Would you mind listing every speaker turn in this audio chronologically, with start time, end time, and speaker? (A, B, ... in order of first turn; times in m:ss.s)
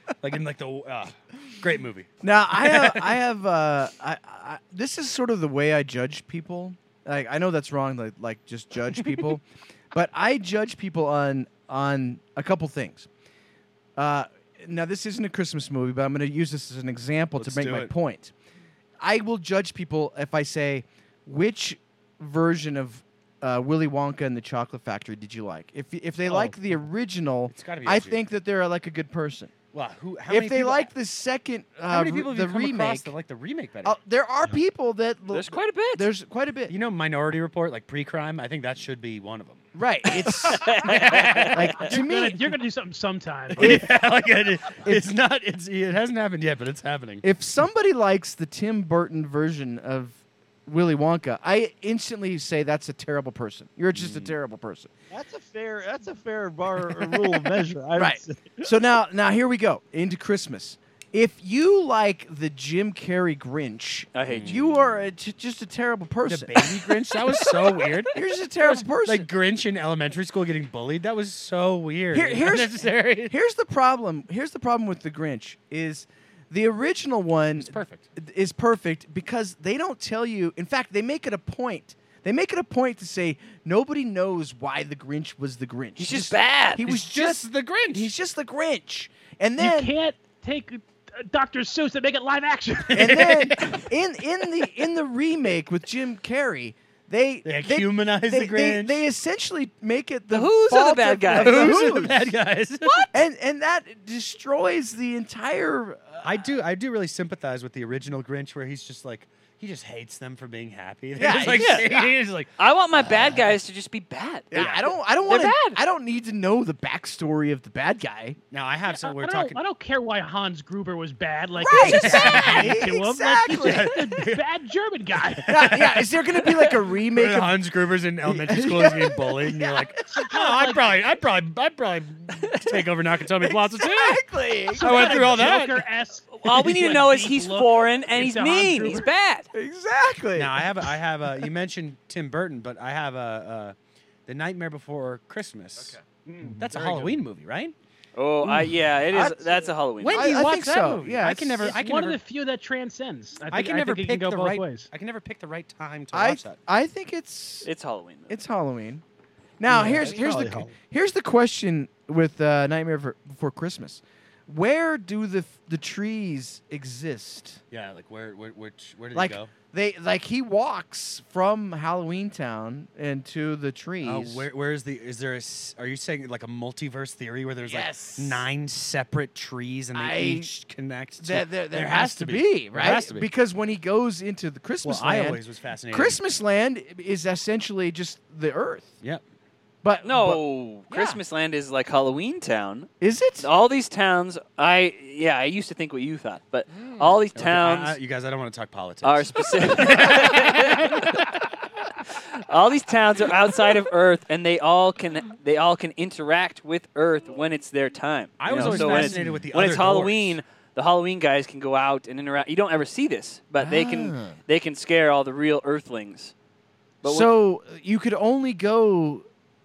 0:00.2-0:02.1 A
0:02.2-0:13.1 B
0:02.6-0:03.0 A
0:14.0-0:18.3 B
0:17.4-0:17.9 A
0:19.0-0:29.5 B
0:27.5-0:28.2 A
0:29.7-0:30.9 A
0:30.3-0:33.1 B
0:31.9-0:34.0 A
0:33.8-0:36.8 B
0:35.3-0:36.1 C
0:36.7-0:39.6 A
0:39.7-0:42.4 B
0:40.4-0:41.8 C
0:40.8-0:41.7 A
0:41.8-0:43.8 D
0:43.6-0:43.9 B
0:43.6-0:47.2 A
0:47.2-0:54.9 B
0:53.9-0:54.3 A
0:55.1-0:58.7 E
0:58.0-1:09.3 B
1:04.2-1:04.6 C
1:04.3-1:04.9 A
1:06.2-1:13.4 A
1:12.1-1:29.9 B
1:17.6-1:18.1 A
1:26.0-1:26.8 C
1:26.8-1:28.1 A
1:29.6-1:33.4 D
1:32.9-1:33.8 A
1:33.0-1:42.4 B
1:37.4-1:39.0 A
1:40.3-1:41.9 C
1:41.4-1:43.1 A
1:42.8-1:43.1 C
1:43.1-1:46.5 B
1:46.2-1:52.5 A
1:51.2-1:52.1 B
1:51.6-1:51.9 C
1:52.6-1:54.7 C
1:53.0-1:53.4 B
1:54.5-1:58.4 B
1:54.5-1:54.9 A
1:55.3-1:55.8 C
1:58.5-1:59.6 A
1:59.0-2:06.0 D
2:01.6-2:03.9 B
2:01.7-2:02.8 A
2:03.5-2:04.4 A
2:05.4-2:07.6 B
2:05.6-2:05.9 A
2:06.6-2:14.2 A
2:08.2-2:10.2 B
2:10.1-2:10.9 D
2:13.7-2:15.5 B
2:14.7-2:19.1 D
2:14.8-2:15.8 A
2:16.3-2:19.5 C
2:19.5-2:20.9 B
2:20.4-2:23.8 A
2:24.3-2:26.0 A
2:25.8-2:26.0 B
2:26.2-2:27.2 D
2:26.6-2:27.8 A
2:28.2-2:30.3 C
2:28.4-2:29.4 B
2:30.0-2:32.2 A
2:30.1-2:31.8 B
2:31.6-2:34.9 D
2:33.5-2:36.6 A
2:36.1-2:37.7 B
2:37.6-2:38.4 C
2:38.3-2:39.0 B
2:39.6-2:47.6 B
2:39.7-2:40.7 E
2:47.7-2:49.5 A
2:49.1-2:54.5 B
2:54.0-3:03.3 A
2:57.7-2:58.4 B
2:59.9-3:00.5 B
3:01.2-3:09.0 B
3:04.8-3:06.2 A
3:09.8-3:11.2 B
3:10.0-3:18.0 C
3:13.0-3:13.5 B
3:17.4-3:21.2 A
3:19.0-3:21.3 C
3:22.3-3:36.3 C
3:28.4-3:30.4 A
3:28.5-3:29.4 B
3:33.6-3:34.4 B
3:37.0-3:37.3 C
3:37.0-3:39.3 B